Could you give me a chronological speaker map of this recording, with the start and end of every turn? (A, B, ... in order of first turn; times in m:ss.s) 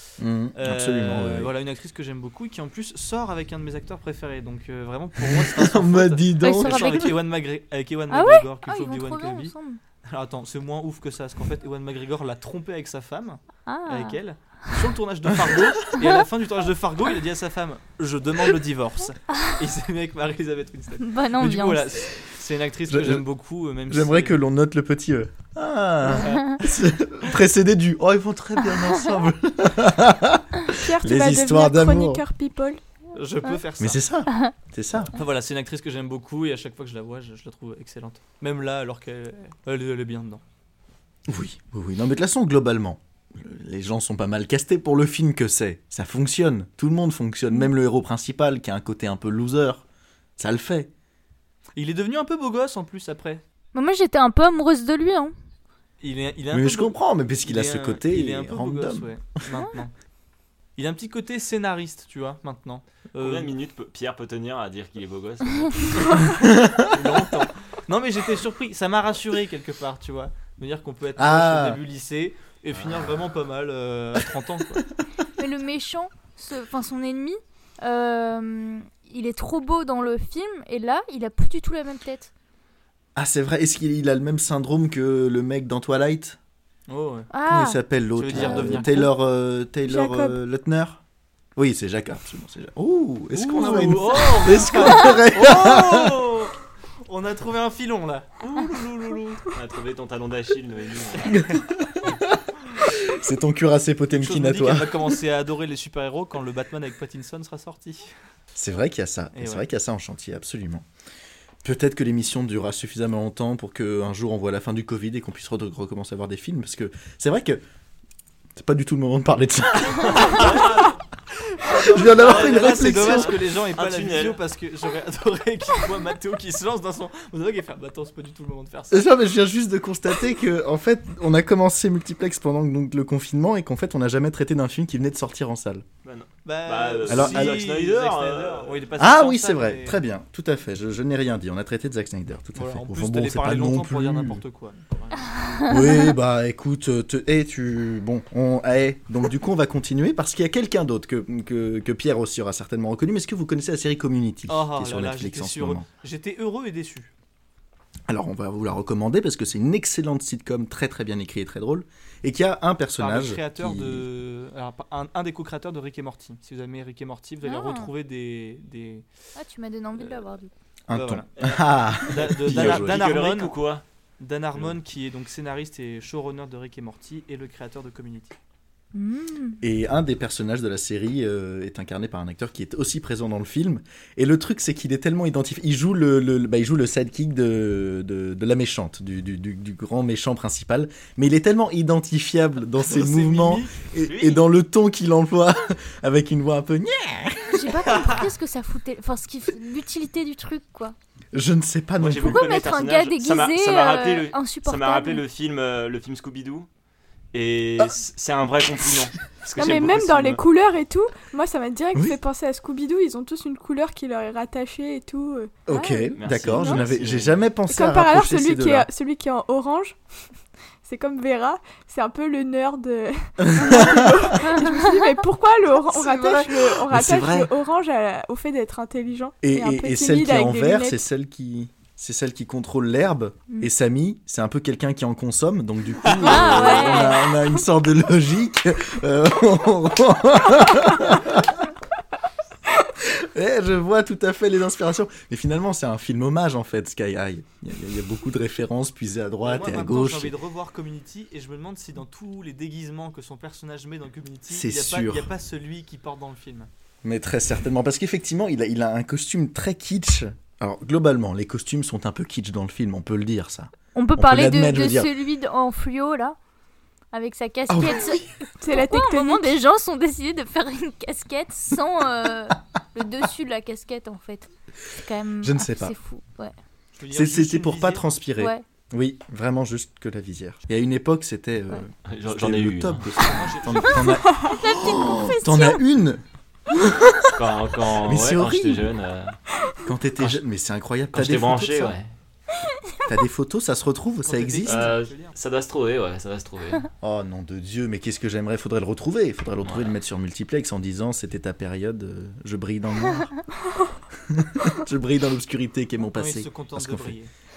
0:00.2-0:01.5 A
0:00.6-0:09.6 B
0:05.2-0:07.1 A
0:06.4-0:07.1 C
0:08.1-0:09.8 C
0:10.1-0:24.4 B
0:13.7-0:14.2 C
0:21.0-0:22.0 C
0:22.9-0:23.2 A
0:23.9-0:32.2 A
0:26.1-0:26.6 B
0:26.2-0:26.6 C
0:30.7-0:32.8 D
0:33.1-0:34.0 B
0:33.8-0:35.1 A
0:35.1-0:40.4 B
0:41.3-0:49.8 A
0:50.4-0:50.9 A
0:51.8-0:53.4 B
0:53.7-0:55.3 C
0:56.0-0:59.9 B
0:56.5-0:59.1 A
1:00.8-1:03.5 B
1:03.2-1:06.2 E
1:06.4-1:06.8 A
1:06.8-1:14.8 B
1:11.2-1:11.8 A
1:15.4-1:22.3 C
1:23.2-1:26.4 A
1:26.9-1:27.3 B
1:27.3-1:27.8 C
1:27.5-1:31.0 A
1:28.2-1:29.1 B
1:29.8-1:30.4 D
1:31.6-1:36.2 A
1:33.3-1:36.5 B
1:37.1-1:39.4 B
1:39.5-1:41.4 E
1:41.3-1:45.0 A
1:44.2-1:48.1 B
1:48.6-1:50.8 A
1:49.3-1:49.6 B
1:51.6-1:57.6 A
1:58.6-2:00.8 A
2:00.0-2:01.0 E
2:01.7-2:09.0 B
2:01.8-2:03.4 A
2:01.8-2:04.4 E
2:08.9-2:15.8 A
2:16.0-2:18.9 E
2:16.4-2:20.0 B
2:17.1-2:17.6 A
2:19.0-2:24.4 A
2:22.6-2:25.7 B
2:25.7-2:35.9 A
2:34.5-2:37.1 B
2:38.1-2:44.0 A
2:43.0-2:49.1 B
2:47.4-2:47.9 C
2:49.4-2:50.5 C
2:50.9-2:53.1 A
2:50.9-2:51.3 B
2:51.4-2:53.8 E
2:52.1-2:53.6 B
2:54.2-2:58.4 B
2:58.9-2:59.6 C
2:59.6-3:18.1 A
3:12.8-3:13.8 B
3:14.0-3:14.4 E
3:17.5-3:21.0 C
3:21.3-3:22.5 A
3:22.0-3:26.7 E
3:22.2-3:25.2 C
3:27.3-3:30.4 E
3:29.6-3:36.8 D
3:35.7-3:38.9 A
3:36.2-3:37.4 E
3:37.7-3:40.0 D
3:40.8-3:51.0 D
3:43.4-3:44.4 A
3:44.4-3:45.0 C
3:46.0-3:46.5 C
3:46.8-3:47.5 A
3:49.4-4:01.6 A
3:56.1-3:56.5 B
3:56.2-3:57.2 C
4:03.0-4:10.3 A
4:09.4-4:16.7 B
4:14.5-4:15.3 A
4:17.0-4:25.1 A
4:24.0-4:26.4 C
4:27.1-4:28.2 C
4:27.7-4:28.4 A
4:28.6-4:29.6 D
4:28.8-4:36.6 C
4:35.4-4:36.0 A
4:37.0-4:38.1 B
4:37.1-4:48.9 A
4:38.4-4:38.6 C
4:42.1-4:43.4 E
4:43.2-4:44.2 B
4:44.5-4:45.8 C
4:47.3-4:49.4 E
4:49.8-4:52.0 A
4:51.1-4:52.1 E
4:53.1-4:55.0 A
4:54.2-4:55.4 B
4:54.6-4:56.9 E
4:57.0-5:03.3 A
4:59.6-4:59.9 E
5:04.3-5:07.2 A
5:06.1-5:07.3 B